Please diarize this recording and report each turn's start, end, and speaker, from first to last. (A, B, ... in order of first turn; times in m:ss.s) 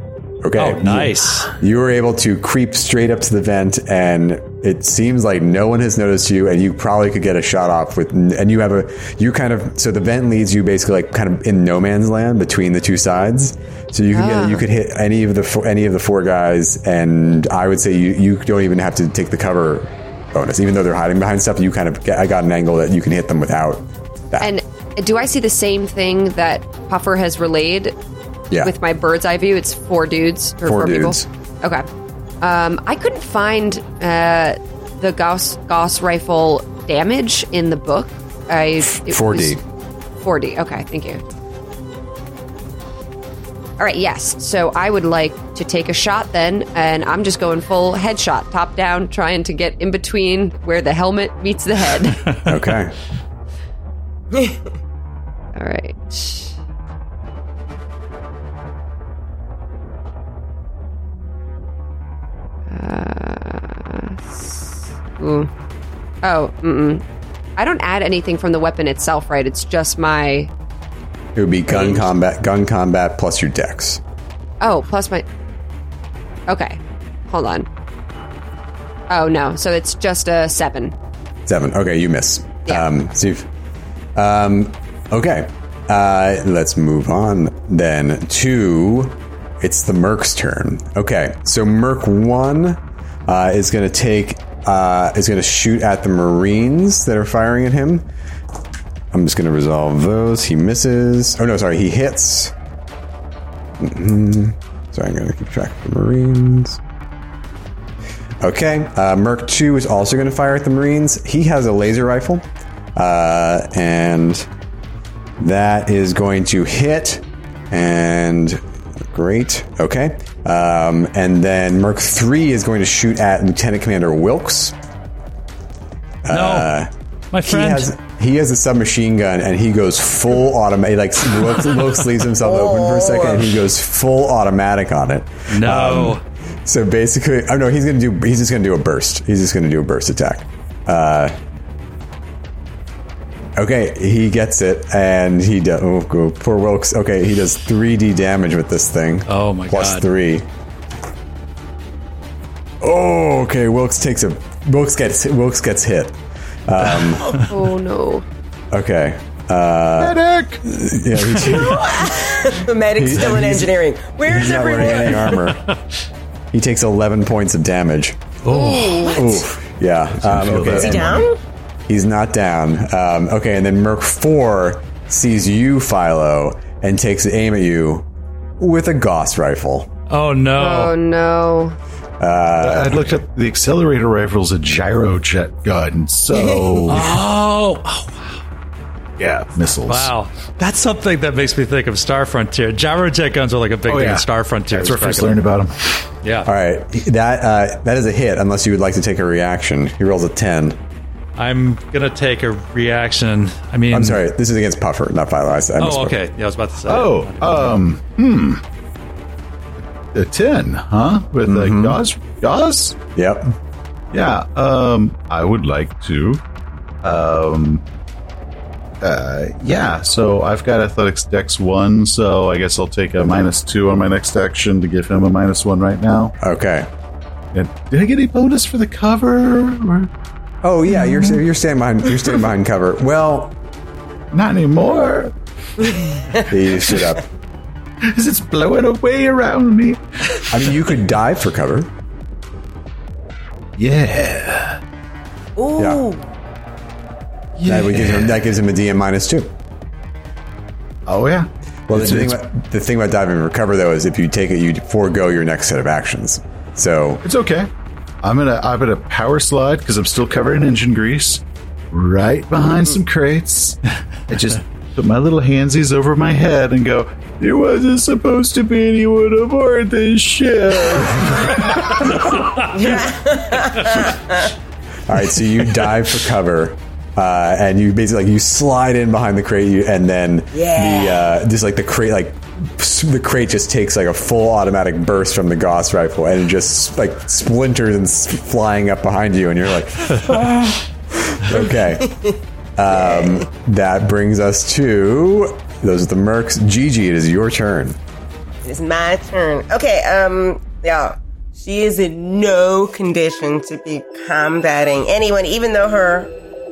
0:00.4-0:24.5 A
0:00.6-0:01.5 B
0:14.1-0:14.6 C
0:24.4-0:27.9 C
0:28.6-0:31.8 C
0:30.6-0:31.3 A
0:32.4-0:39.6 C
0:39.0-0:39.6 A
0:40.2-0:41.2 C
0:43.8-0:52.2 C
0:52.4-0:52.9 A
0:55.5-0:56.5 C
1:02.7-1:05.5 C
1:06.2-1:07.0 C
1:07.6-1:10.5 C
1:11.3-1:14.0 A
1:11.7-1:12.1 C
1:14.6-1:15.2 C
1:16.5-1:17.7 C
1:19.1-1:20.9 C
1:21.4-1:23.5 A
1:24.1-1:38.0 A
1:39.1-1:42.5 A
1:43.8-1:46.8 A
1:48.4-1:54.5 A
1:55.4-2:04.7 A
2:06.2-2:06.9 A
2:06.3-2:06.7 B
2:07.3-2:07.9 B
2:07.4-2:21.3 A
2:12.4-2:13.4 D
2:15.5-2:16.2 B
2:23.6-2:30.5 A
2:29.3-2:30.1 B
2:32.8-2:37.4 A
2:37.0-2:37.3 B
2:37.3-2:38.2 C
2:38.7-2:45.6 A
2:40.0-2:40.6 E
2:41.4-2:45.5 D
2:46.5-2:51.3 A
2:48.5-2:49.2 C
2:48.6-2:49.0 B
2:50.2-2:51.2 E
2:50.7-2:51.4 D
2:51.9-2:58.0 A
2:58.6-2:59.9 A
3:00.1-3:00.9 B
3:00.6-3:01.8 C
3:02.2-3:03.2 A
3:02.6-3:07.2 E
3:06.3-3:07.0 D
3:06.9-3:08.4 B
3:09.2-3:10.1 E
3:09.9-3:15.4 B
3:13.9-3:16.0 E
3:16.2-3:16.5 B
3:16.4-3:20.8 A
3:21.4-3:24.2 B
3:23.9-3:26.2 A
3:25.8-3:27.8 B
3:26.8-3:28.6 E
3:30.1-3:33.0 E
3:31.4-3:32.0 A
3:33.2-3:33.5 A
3:34.1-3:36.4 E
3:37.0-3:37.8 E
3:39.0-3:46.3 E
3:46.4-3:46.9 A
3:47.5-3:50.1 E
3:50.6-3:53.5 A
3:51.0-3:51.3 E
3:54.3-3:55.3 E
3:56.5-3:57.2 A
3:58.0-4:00.6 E
4:00.5-4:01.9 A
4:03.8-4:04.8 E
4:05.6-4:06.3 D
4:05.8-4:06.0 A
4:07.6-4:08.4 E
4:07.6-4:09.5 A
4:11.0-4:12.4 E
4:11.9-4:17.2 A
4:17.2-4:17.7 E
4:18.2-4:32.4 E
4:32.7-4:34.5 D
4:35.1-4:52.2 A
4:40.5-4:41.3 D
4:52.1-4:52.3 D
4:52.8-4:58.0 A
4:52.9-4:53.4 D
4:58.6-5:06.3 D